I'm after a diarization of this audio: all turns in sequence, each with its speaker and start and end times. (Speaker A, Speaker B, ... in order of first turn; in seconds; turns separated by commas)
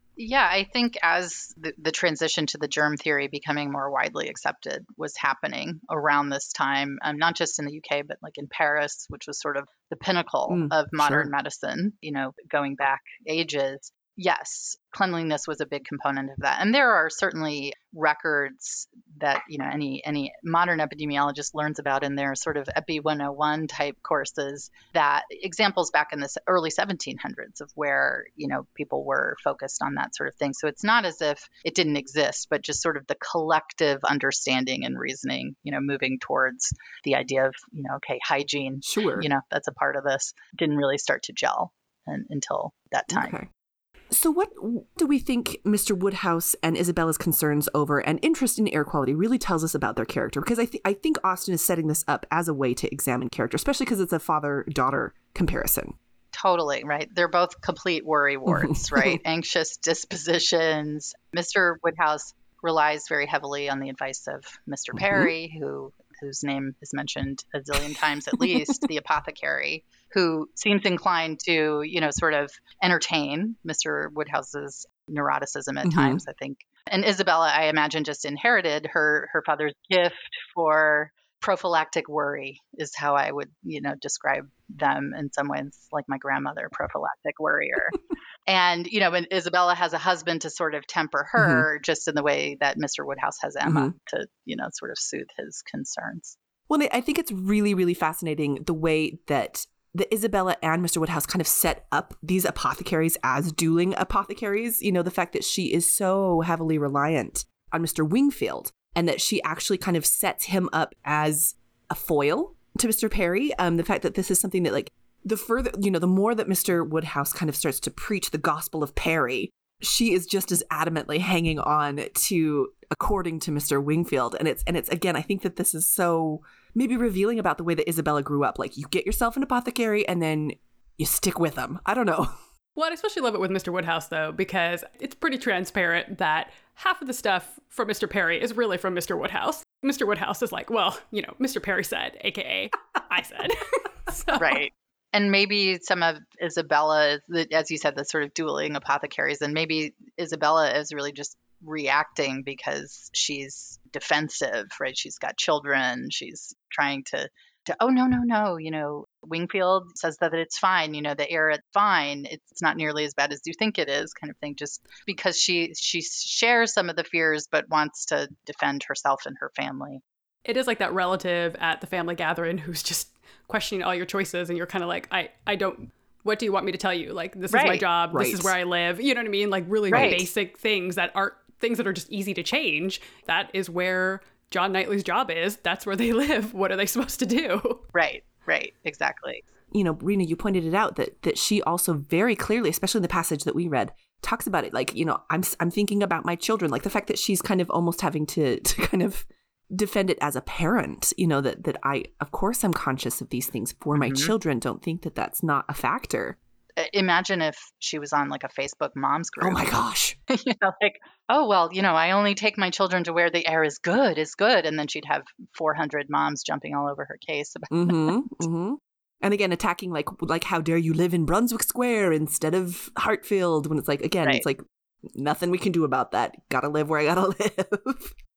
Speaker A: 0.2-43.4, Speaker B: 10.5-11.3, Speaker B: 38.8-39.3, Speaker B: 43.1-43.5, Speaker B: 44.1-56.0, Speaker A: 56.3-96.4, Speaker B: 58.5-59.1, Speaker B: 65.0-65.3, Speaker B: 75.8-76.2, Speaker B: 91.4-91.7, Speaker B: 93.6-93.9, Speaker B: 96.7-132.3, Speaker C: 132.8-144.6, Speaker A: 144.4-170.0, Speaker C: 170.4-187.8, Speaker A: 177.5-177.8, Speaker B: 178.1-178.5, Speaker A: 179.9-180.3, Speaker B: 179.9-180.2, Speaker A: 187.9-189.4, Speaker B: 189.7-206.4, Speaker A: 203.9-204.3, Speaker A: 206.8-209.7, Speaker B: 209.4-210.2, Speaker A: 210.3-218.4, Speaker B: 217.7-228.1